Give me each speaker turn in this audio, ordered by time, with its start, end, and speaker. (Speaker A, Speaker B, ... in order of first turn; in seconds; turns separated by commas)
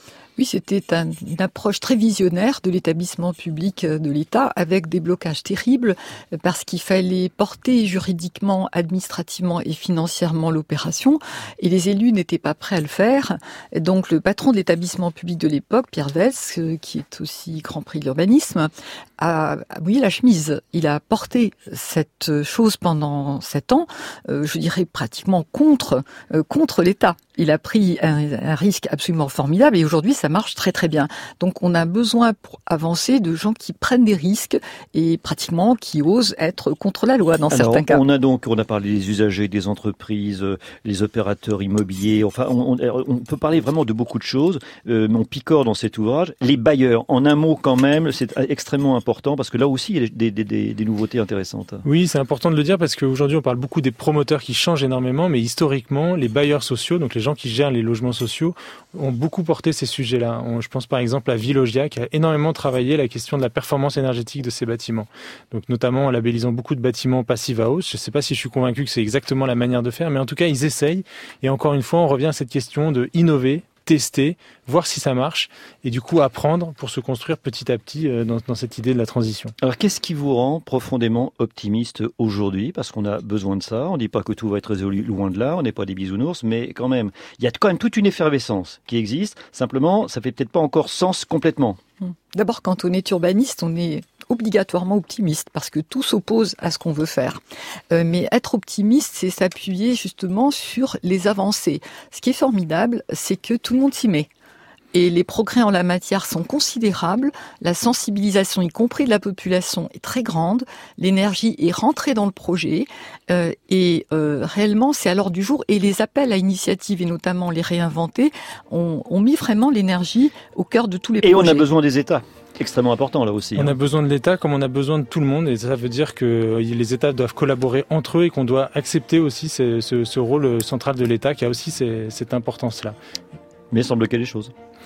Speaker A: 0.4-38.0, Speaker B: 37.5-51.8, Speaker C: 51.9-79.5, Speaker B: 79.6-91.8, Speaker A: 92.0-104.3, Speaker A: 104.9-121.7, Speaker B: 121.2-123.7, Speaker C: 123.6-133.0, Speaker B: 133.7-134.5